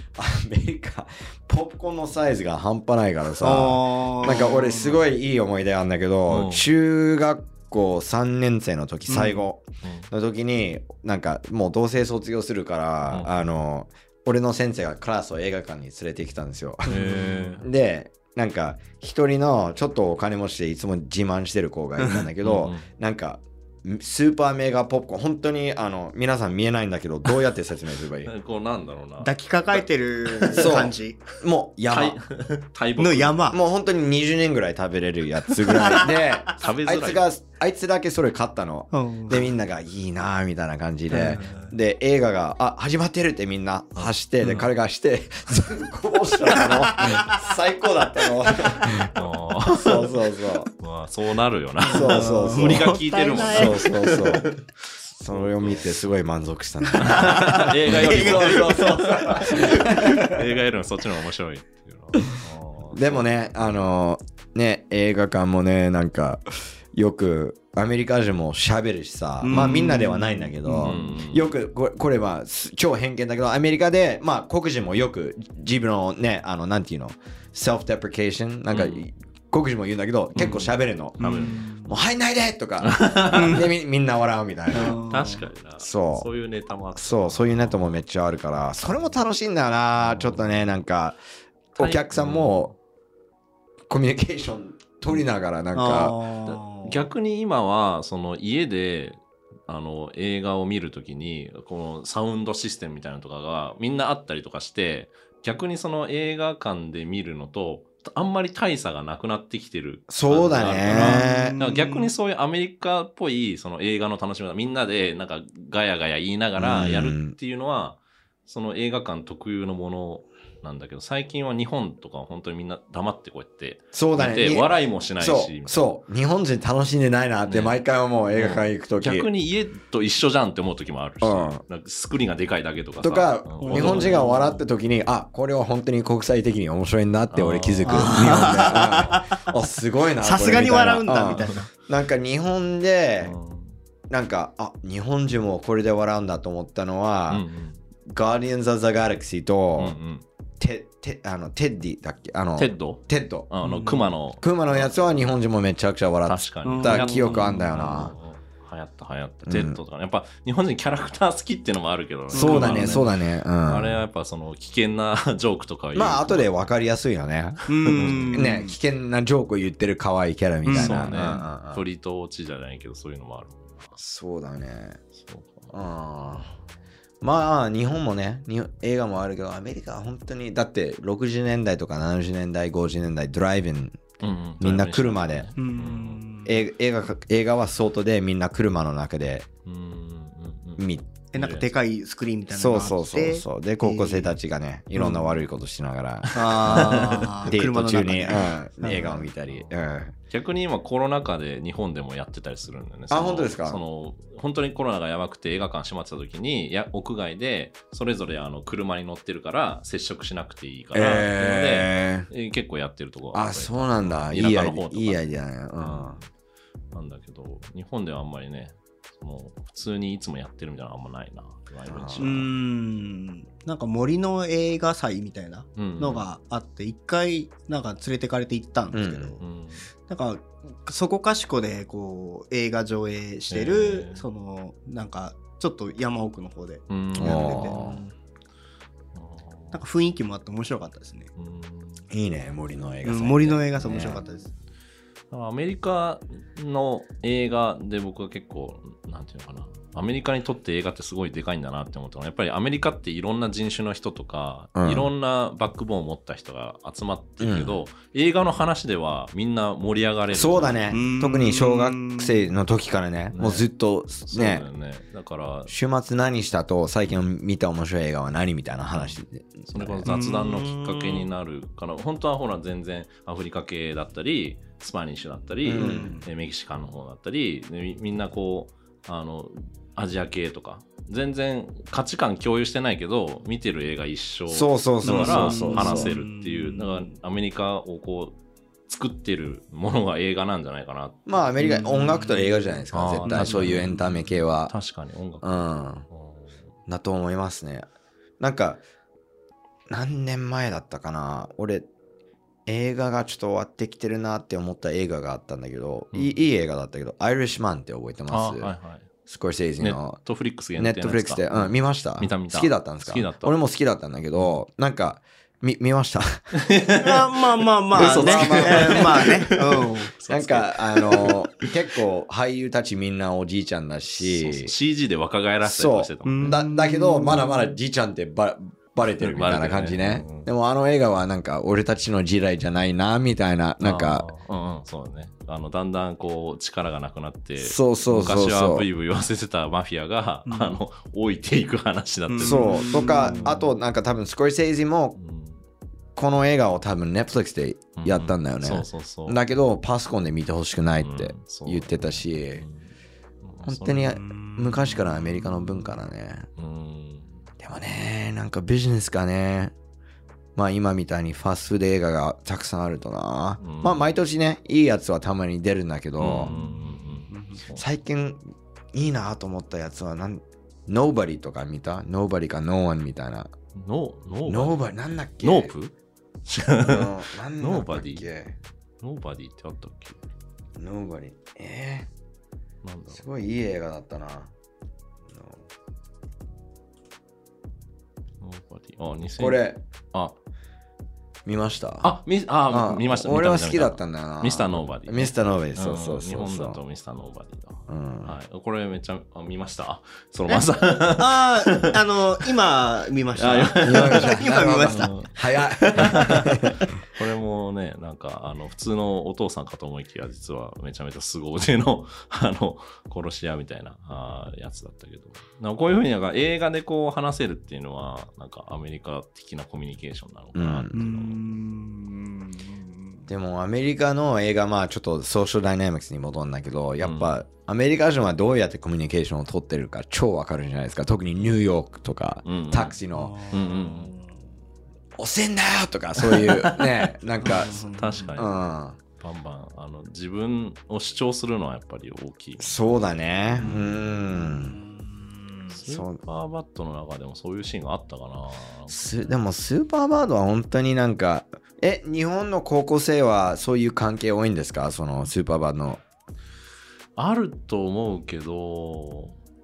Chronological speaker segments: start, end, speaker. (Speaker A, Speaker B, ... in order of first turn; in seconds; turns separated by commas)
Speaker A: 0.1-28.3, Speaker B: 3.4-5.0, Speaker C: 6.3-6.7, Speaker B: 9.1-9.4, Speaker C: 9.8-10.1, Speaker B: 16.9-17.6, Speaker C: 16.9-17.7, Speaker C: 22.4-22.9, Speaker C: 28.2-30.7, Speaker B: 29.2-31.2, Speaker A: 30.5-32.2, Speaker C: 31.9-33.5, Speaker B: 33.0-33.6, Speaker A: 33.5-49.1, Speaker B: 35.7-36.5, Speaker C: 36.4-37.2, Speaker B: 38.9-39.5, Speaker B: 41.1-41.7, Speaker C: 44.0-44.7, Speaker B: 46.5-47.4, Speaker C: 49.1-50.2, Speaker A: 49.7-50.7, Speaker C: 50.8-54.5, Speaker B: 51.9-54.5, Speaker A: 51.9-54.5, Speaker A: 55.1-60.5, Speaker C: 55.2-56.0, Speaker B: 56.9-59.9, Speaker C: 57.0-63.2, Speaker A: 62.9-85.0, Speaker B: 69.4-71.1, Speaker C: 70.8-71.5, Speaker C: 78.7-79.1, Speaker C: 80.4-80.6, Speaker B: 81.2-81.9, Speaker C: 81.2-81.6, Speaker C: 82.8-83.6, Speaker B: 83.3-83.7, Speaker B: 84.7-85.4, Speaker C: 84.9-88.0, Speaker A: 85.8-86.3, Speaker A: 87.0-91.2, Speaker C: 90.0-90.7, Speaker A: 91.8-92.7, Speaker C: 91.8-92.6, Speaker A: 93.9-96.2, Speaker B: 95.7-97.1, Speaker C: 96.5-125.9, Speaker A: 110.1-111.6, Speaker B: 110.9-112.1, Speaker A: 116.6-117.3, Speaker A: 123.9-129.3, Speaker C: 127.5-127.8, Speaker C: 128.3-134.5, Speaker A: 131.2-131.6, Speaker A: 133.0-143.3, Speaker B: 133.6-134.6, Speaker C: 137.3-138.8, Speaker B: 137.8-139.4, Speaker B: 140.2-141.7, Speaker C: 143.2-143.8, Speaker A: 144.1-147.4, Speaker C: 147.3-147.8, Speaker A: 148.1-150.0, Speaker C: 149.8-150.2, Speaker A: 150.6-153.5, Speaker C: 152.6-155.0, Speaker B: 153.6-154.1, Speaker A: 154.4-158.1, Speaker C: 156.2-166.6, Speaker B: 156.6-157.8, Speaker A: 159.4-159.8, Speaker B: 162.3-163.1, Speaker A: 162.3-164.0, Speaker A: 165.9-171.8, Speaker B: 167.7-168.8, Speaker C: 167.9-168.5, Speaker B: 170.7-171.4, Speaker C: 170.7-174.0, Speaker A: 174.0-175.0, Speaker C: 175.1-175.7, Speaker A: 175.7-176.5, Speaker C: 176.2-176.7, Speaker A: 177.2-184.0, Speaker C: 184.2-186.2, Speaker A: 184.6-185.5, Speaker B: 185.6-186.6, Speaker A: 186.4-189.5, Speaker C: 189.6-191.7, Speaker A: 190.8-191.1, Speaker B: 191.3-194.3, Speaker A: 192.5-200.1, Speaker B: 194.9-195.3, Speaker B: 196.3-199.3, Speaker C: 196.4-197.4, Speaker C: 199.5-199.7, Speaker C: 200.3-215.3, Speaker A: 203.1-203.8, Speaker A: 210.9-212.3, Speaker A: 213.3-216.2, Speaker C: 215.8-216.2, Speaker C: 216.9-222.5, Speaker A: 221.9-222.3, Speaker B: 222.2-229.4, Speaker C: 225.8-226.2, Speaker A: 228.9-229.3, Speaker C: 229.4-229.9, Speaker B: 230.1-238.1, Speaker C: 233.5-234.2, Speaker C: 236.9-238.0, Speaker A: 237.2-238.0, Speaker C: 239.1-239.8, Speaker B: 239.7-241.3, Speaker C: 241.4-242.1, Speaker A: 242.1-244.2, Speaker B: 243.0-244.5, Speaker C: 245.3-260.9, Speaker A: 254.7-255.1, Speaker A: 257.4-257.8, Speaker A: 260.3-264.6, Speaker B: 260.9-262.5, Speaker C: 263.3-263.7, Speaker C: 264.3-265.7, Speaker A: 265.7-270.1, Speaker C: 268.9-288.4, Speaker B: 270.0-271.3, Speaker A: 275.6-276.2, Speaker B: 275.7-276.2, Speaker A: 284.5-286.1, Speaker B: 285.0-287.1, Speaker C: 288.9-291.2, Speaker A: 291.3-294.7, Speaker B: 291.6-292.6, Speaker C: 292.9-296.6, Speaker B: 293.2-294.0, Speaker A: 295.4-296.1, Speaker A: 296.9-297.9, Speaker A: 298.4-298.8, Speaker A: 299.9-301.9, Speaker A: 302.6-308.7, Speaker C: 306.1-306.4, Speaker C: 308.3-309.1, Speaker A: 309.3-310.2, Speaker C: 309.8-313.6, Speaker A: 310.8-316.4, Speaker C: 316.6-317.4, Speaker B: 317.0-320.1, Speaker C: 317.9-321.7, Speaker A: 317.9-319.3, Speaker A: 320.3-324.7, Speaker C: 324.2-326.5, Speaker A: 325.6-334.2, Speaker B: 326.2-327.7, Speaker C: 329.0-330.5, Speaker C: 333.8-343.7, Speaker A: 337.6-338.9, Speaker B: 340.5-340.8, Speaker B: 342.3-343.6, Speaker A: 342.4-345.1, Speaker C: 345.1-345.6, Speaker A: 346.1-352.6, Speaker C: 348.0-349.4, Speaker C: 351.0-352.9, Speaker C: 353.4-354.2, Speaker A: 353.6-356.5, Speaker B: 354.1-355.3, Speaker C: 356.6-357.4, Speaker A: 357.6-359.7, Speaker A: 360.6-366.5, Speaker C: 363.6-364.1, Speaker C: 366.2-367.9, Speaker B: 366.4-367.6, Speaker A: 367.8-368.4, Speaker A: 368.9-373.5, Speaker C: 373.7-374.8, Speaker A: 374.4-375.7, Speaker C: 375.4-375.9, Speaker C: 376.4-378.3, Speaker A: 376.8-378.5, Speaker C: 379.0-380.2, Speaker A: 380.8-382.1, Speaker C: 382.8-383.2, Speaker A: 383.1-384.5, Speaker A: 385.3-385.6, Speaker C: 388.4-390.4, Speaker A: 389.4-389.8, Speaker A: 391.4-392.1, Speaker C: 392.0-401.9, Speaker A: 392.7-396.8, Speaker A: 397.9-398.3, Speaker B: 400.5-405.2, Speaker C: 403.4-405.3, Speaker A: 403.8-406.8, Speaker C: 405.9-421.4, Speaker B: 405.9-406.2, Speaker A: 420.5-420.9, Speaker B: 420.9-423.3, Speaker A: 423.3-433.3, Speaker C: 427.0-427.3, Speaker C: 432.4-433.0, Speaker B: 433.1-434.4, Speaker C: 433.5-434.1, Speaker A: 435.2-437.8, Speaker C: 436.2-438.6, Speaker B: 437.4-438.4, Speaker A: 438.3-439.0, Speaker C: 439.1-443.0, Speaker A: 442.6-444.8, Speaker C: 443.6-443.9, Speaker B: 443.6-445.7, Speaker C: 445.7-449.3, Speaker A: 445.9-446.2, Speaker A: 448.9-456.0, Speaker C: 457.1-459.4